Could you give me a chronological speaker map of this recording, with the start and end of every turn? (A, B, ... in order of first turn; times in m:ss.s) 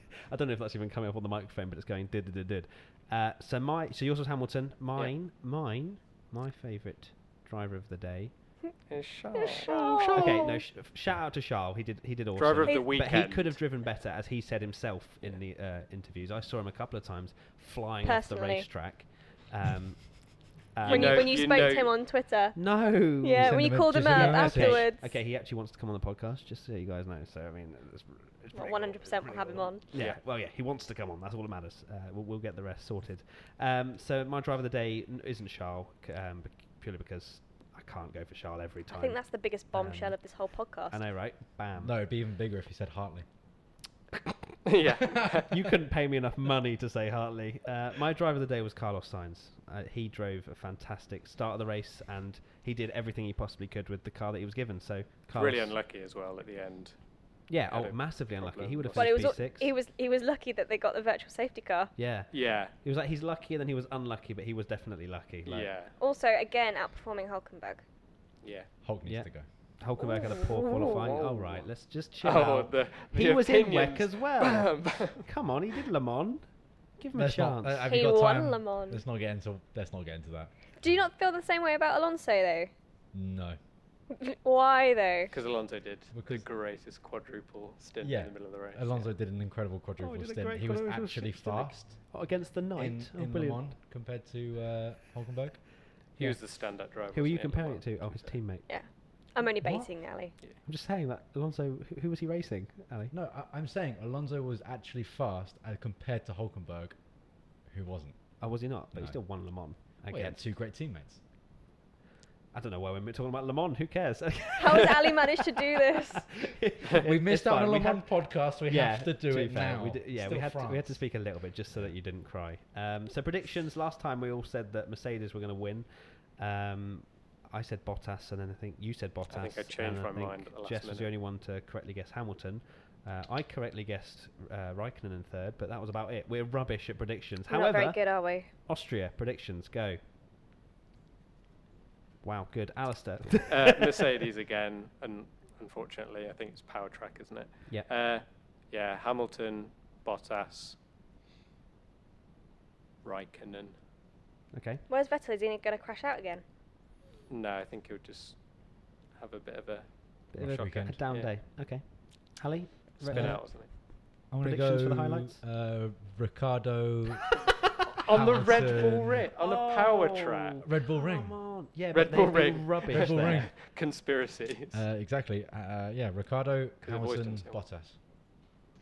0:00.3-0:08.5 A
0:08.9-0:10.4 B
0:09.4-0:10.6 C
0:09.6-0:21.5 A
0:12.4-0:13.6 B
0:12.6-0:12.9 C
0:18.0-0:18.7 C
0:20.8-0:22.0 B
0:20.9-0:25.1 C
0:22.6-0:42.0 A
0:23.4-0:24.9 D
0:28.5-0:29.8 C
0:29.9-0:30.2 B
0:38.9-0:41.0 C
0:41.8-0:43.3 D
0:44.7-0:45.7 B
0:45.5-0:55.8 A
0:55.3-0:59.4 B
0:57.5-0:59.7 A
0:59.0-1:01.9 C
1:02.0-1:05.7 A
1:02.3-1:02.7 B
1:05.4-1:06.0 B
1:06.0-1:07.8 C
1:08.4-1:08.7 B
1:08.8-1:09.5 D
1:09.0-1:17.9 A
1:10.0-1:10.6 C
1:10.5-1:11.6 B
1:12.2-1:15.2 B
1:17.1-1:20.5 D
1:17.9-1:19.0 C
1:20.8-1:22.7 C
1:23.1-1:23.6 D
1:24.2-1:25.3 C
1:25.3-1:29.1 B
1:26.1-1:26.4 D
1:28.0-1:32.2 D
1:30.0-1:33.7 A
1:32.8-1:35.8 D
1:36.2-1:38.4 B
1:37.1-1:38.7 A
1:38.7-1:40.4 C
1:39.6-1:39.9 D
1:40.6-1:43.1 A
1:43.1-1:47.0 D
1:47.5-1:48.4 D
1:48.4-1:50.4 A
1:48.9-1:49.2 D
1:50.0-1:51.2 D
1:52.5-2:20.0 A
1:54.6-1:56.2 C
1:57.0-2:01.2 D
2:01.7-2:02.0 D
2:09.3-2:11.1 B
2:17.5-2:18.5 C
2:22.2-2:24.0 A
2:23.5-2:30.8 B
2:33.0-2:33.8 B
2:34.5-2:34.8 A
2:34.9-2:36.4 C
2:37.3-2:38.4 B
2:39.1-2:41.3 B
2:40.3-2:43.8 A
2:40.4-2:41.0 D
2:43.0-2:43.7 B
2:43.1-2:47.4 D
2:44.4-2:45.4 A
2:48.0-2:50.7 B
2:48.1-2:49.3 D
2:49.4-2:53.5 A
2:50.6-2:51.4 D
2:51.9-2:54.8 B
2:52.9-2:53.6 D
2:54.7-2:58.0 D
2:56.8-2:57.6 B